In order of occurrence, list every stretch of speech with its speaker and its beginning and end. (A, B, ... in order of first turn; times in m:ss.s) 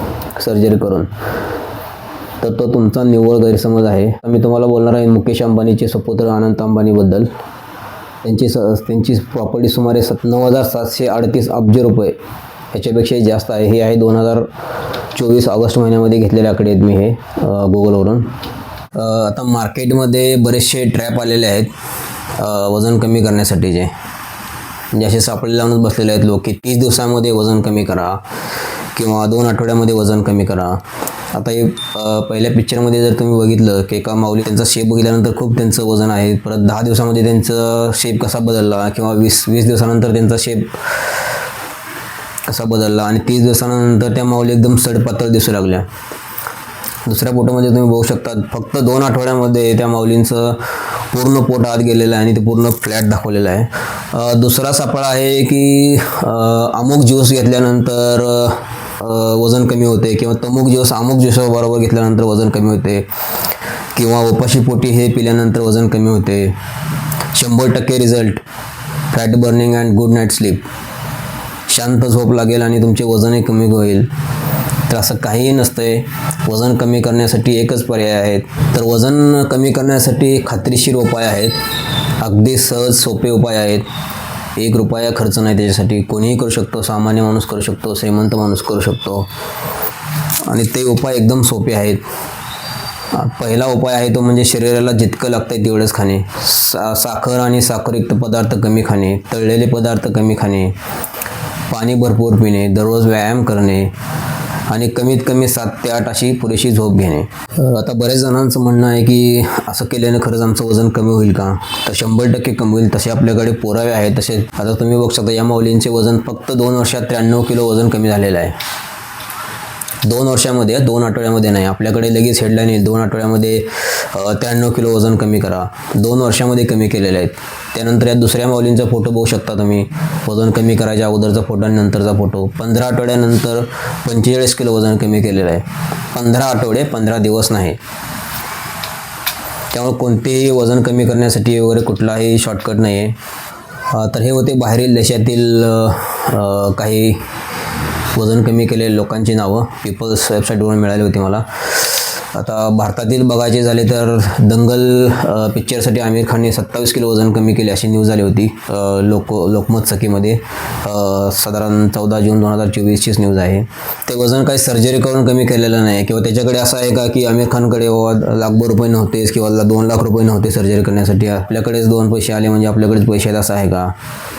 0:00.3-0:01.1 A
0:02.4-0:07.3 A
0:08.2-0:12.2 A
0:12.7-0:14.5 A
0:15.1-0:18.3 A
0:18.9-0:21.7 A
0:22.3-0:23.9 A
0:24.9-0:28.2 A
0:28.9-0:40.8 A
0:42.5-0:45.9 A
0:47.0-1:03.1 A
1:03.9-1:06.6 A
1:07.3-1:08.4 A
1:09.1-1:10.6 A
1:11.7-1:14.1 A
1:14.9-1:21.6 A
1:22.2-1:23.9 A
1:24.6-1:29.3 A
1:30.4-1:32.0 A
1:33.1-1:40.8 A
1:41.7-1:43.9 A
1:44.6-1:58.6 A
2:00.0-2:17.8 A
2:19.7-2:23.2 A
2:23.9-2:27.2 A
2:28.1-2:53.9 A